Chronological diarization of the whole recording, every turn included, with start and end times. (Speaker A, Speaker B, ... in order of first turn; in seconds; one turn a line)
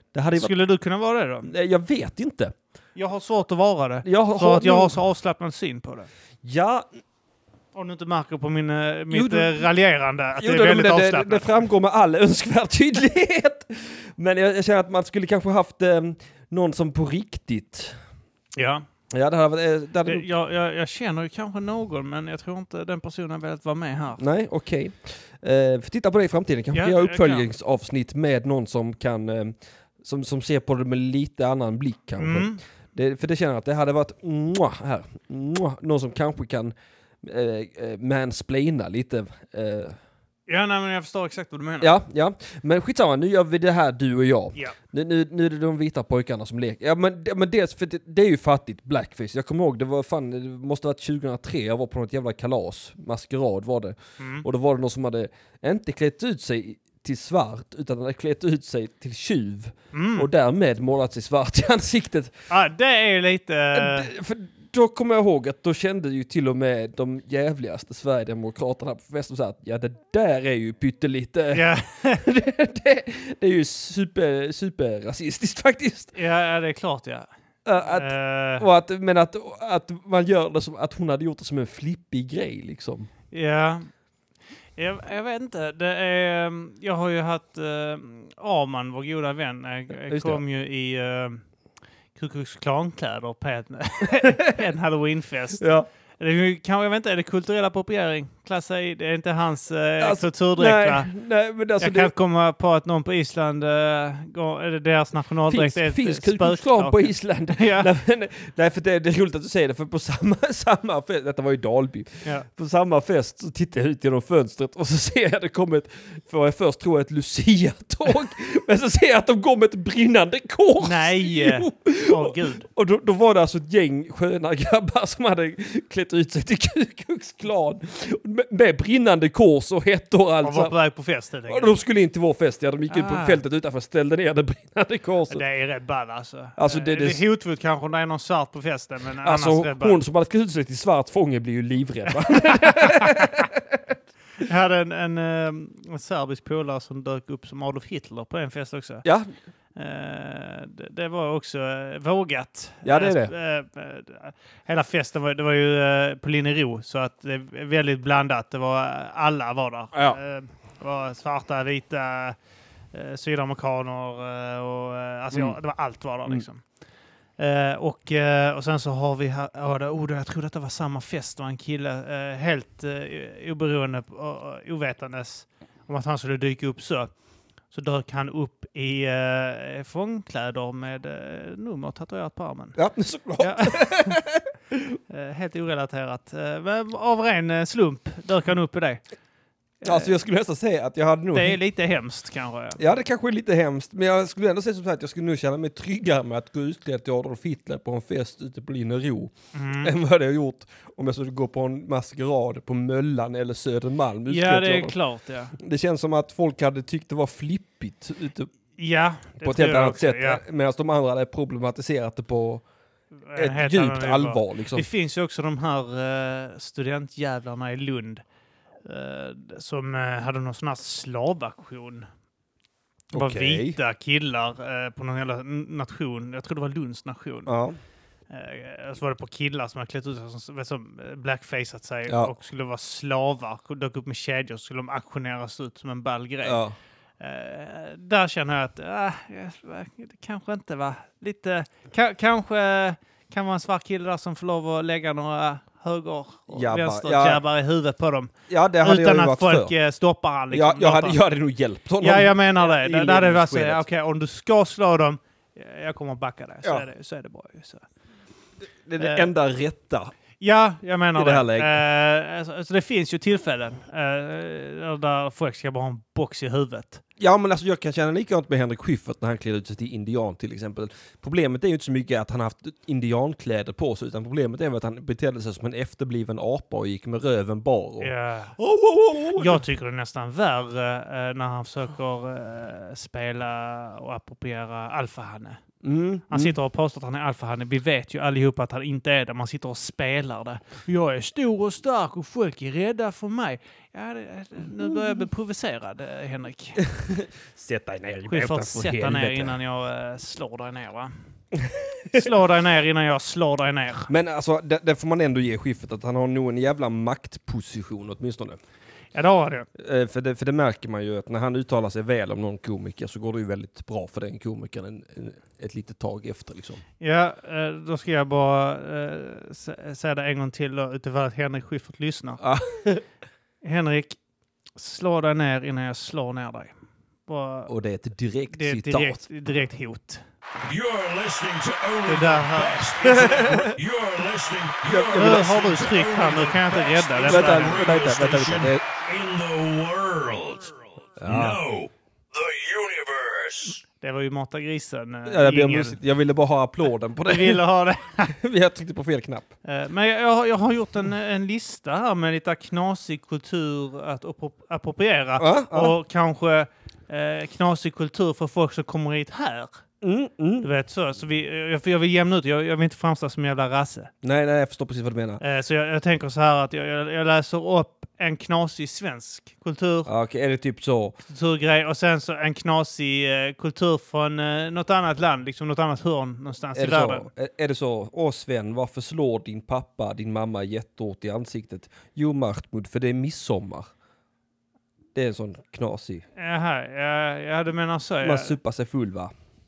Speaker A: 0.1-0.5
Speaker B: 0.3-1.5
Speaker A: 1.4-2.5
Speaker B: 3.0-6.1
Speaker A: 4.0-4.9
Speaker A: 6.4-6.9
Speaker B: 7.7-11.5
Speaker A: 9.1-9.6
Speaker A: 10.4-17.9
Speaker B: 18.6-18.8
Speaker A: 19.1-20.2
Speaker B: 20.0-24.2
Speaker A: 24.2-40.0
Speaker B: 26.7-27.5
Speaker B: 32.2-32.6
Speaker B: 40.5-41.9
Speaker A: 41.8-62.3
Speaker B: 54.2-54.5
Speaker B: 59.9-60.3
Speaker B: 62.5-64.1
Speaker A: 63.7-76.1
Speaker B: 71.5-72.2
Speaker B: 76.1-77.3
Speaker A: 77.6-83.1
Speaker B: 77.8-78.6
Speaker B: 83.3-83.9
Speaker B: 84.8-91.4
Speaker A: 90.1-90.4
Speaker B: 92.1-101.1
Speaker A: 94.2-94.5
Speaker A: 95.6-95.9
Speaker A: 100.0-102.1
Speaker B: 101.8-107.9
Speaker A: 105.5-130.7
Speaker B: 120.8-122.7
Speaker B: 130.4-131.7
Speaker A: 131.5-135.4
Speaker B: 132.9-133.4
Speaker B: 135.3-140.0
Speaker A: 136.6-137.2
Speaker A: 139.2-143.8
Speaker B: 142.3-143.5
Speaker B: 144.4-149.1
Speaker A: 149.0-149.3
Speaker B: 149.8-162.3
Speaker A: 152.8-153.3
Speaker A: 159.9-160.2
Speaker B: 162.9-166.6
Speaker B: 167.4-177.1
Speaker B: 177.7-182.8
Speaker A: 182.8-185.0
Speaker B: 183.4-184.2
Speaker B: 185.1-189.0
Speaker B: 189.8-190.1
Speaker A: 189.8-191.6
Speaker B: 191.3-192.8
Speaker A: 192.8-204.9
Speaker B: 199.5-199.9
Speaker B: 204.3-205.5
Speaker A: 205.6-208.5
Speaker B: 208.8-210.4
Speaker A: 209.4-212.6
Speaker B: 213.3-218.2
Speaker A: 213.3-214.9
Speaker B: 218.8-222.1
Speaker A: 223.1-223.8
Speaker B: 223.1-227.5
Speaker A: 227.5-227.8
Speaker B: 228.3-236.6
Speaker A: 232.1-232.3
Speaker A: 236.4-236.7
Speaker B: 237.2-251.2
Speaker A: 246.5-247.4
Speaker A: 248.5-249.7
Speaker A: 250.5-253.8
Speaker B: 252.0-257.9
Speaker A: 258.9-260.1
Speaker B: 259.0-259.3
Speaker B: 260.4-267.0
Speaker A: 261.1-261.8
Speaker A: 267.2-279.6
Speaker B: 278.0-278.6
Speaker B: 279.3-285.6
Speaker A: 285.8-286.5
Speaker B: 286.3-296.8
Speaker A: 294.8-295.2
Speaker A: 296.8-299.5
Speaker B: 298.3-301.1
Speaker A: 301.6-302.3
Speaker B: 302.1-304.1
Speaker A: 304.1-308.6
Speaker B: 309.1-309.7
Speaker A: 309.8-316.8
Speaker B: 317.0-322.4
Speaker A: 322.4-323.0
Speaker B: 323.6-324.2
Speaker B: 324.8-326.7
Speaker B: 327.3-327.7
Speaker A: 327.7-329.2
Speaker B: 328.5-330.2
Speaker C: 330.6-343.8
Speaker B: 332.1-333.5
Speaker A: 333.0-333.8
Speaker A: 334.9-335.5
Speaker B: 335.1-337.9
Speaker A: 337.2-338.8
Speaker A: 341.2-341.6
Speaker B: 344.0-346.0
Speaker A: 345.3-347.6
Speaker B: 347.2-348.3
Speaker A: 348.3-349.5
Speaker B: 349.6-359.8
Speaker A: 355.4-355.9
Speaker A: 360.0-360.7
Speaker B: 360.6-364.1
Speaker A: 364.2-365.4
Speaker B: 365.4-370.1
Speaker A: 370.1-371.2
Speaker B: 371.3-377.3
Speaker A: 376.8-383.9
Speaker A: 385.1-386.2
Speaker B: 386.4-388.6
Speaker A: 388.2-389.3